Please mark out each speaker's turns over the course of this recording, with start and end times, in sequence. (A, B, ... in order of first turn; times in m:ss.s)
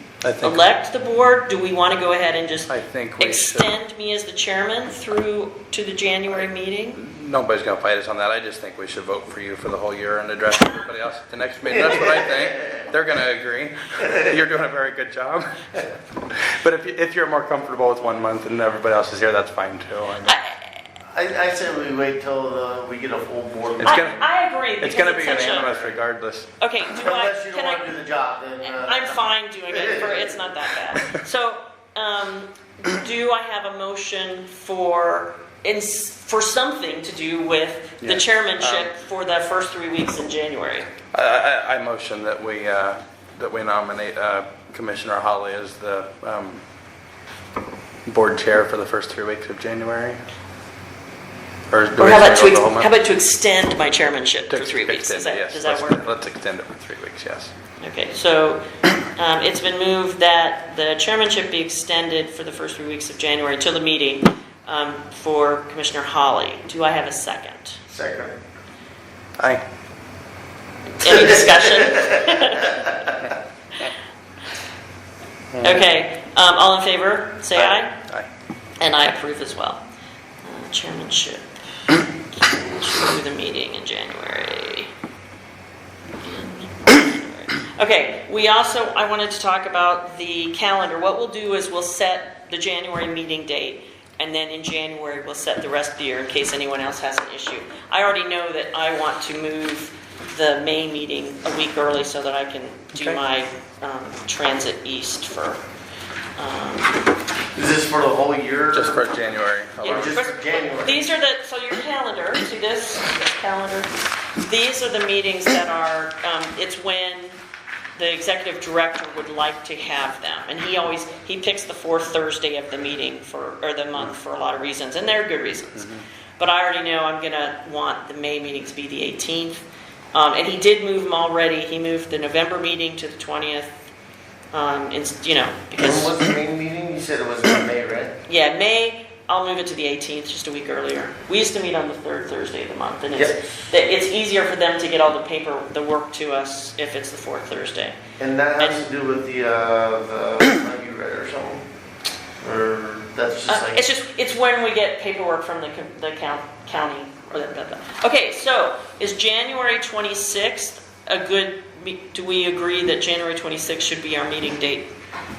0:00.2-0:00.6 A
0:00.4-0:07.0 B
0:02.7-0:03.7 A
0:07.0-0:20.4 A
0:11.8-0:12.4 C
0:20.3-0:20.6 B
0:21.1-0:24.2 C
0:23.8-0:24.2 A
0:23.8-0:25.7 B
0:24.8-0:26.5 A
0:26.6-0:27.9 B
0:26.8-0:30.4 C
0:28.6-0:40.9 B
0:38.0-0:38.9 A
0:41.1-0:46.6 A
0:48.0-0:50.2 A
0:51.7-0:52.9 A
0:52.0-0:56.0 B
0:54.5-0:57.5 A
0:57.8-1:07.8 B
1:07.9-1:08.4 C
1:11.0-1:13.1 B
1:11.0-1:12.7 C
1:15.5-1:15.8 A
1:15.6-1:17.9 B
1:17.5-1:18.3 A
1:18.8-1:19.8 B
1:20.4-1:24.9 B
1:26.2-1:45.6 B
1:42.9-1:43.2 A
1:46.4-1:47.0 B
1:47.5-1:49.0 C
1:48.7-1:50.2 A
1:49.8-1:57.4 B
1:49.8-1:51.0 C
1:58.0-2:13.8 B
2:14.5-2:16.2 B
2:15.8-2:18.1 C
2:18.3-2:28.0 B
2:23.1-2:23.4 C
2:28.2-2:31.6 C
2:28.6-2:28.9 B
2:32.4-2:33.8 C
2:33.5-2:44.9 B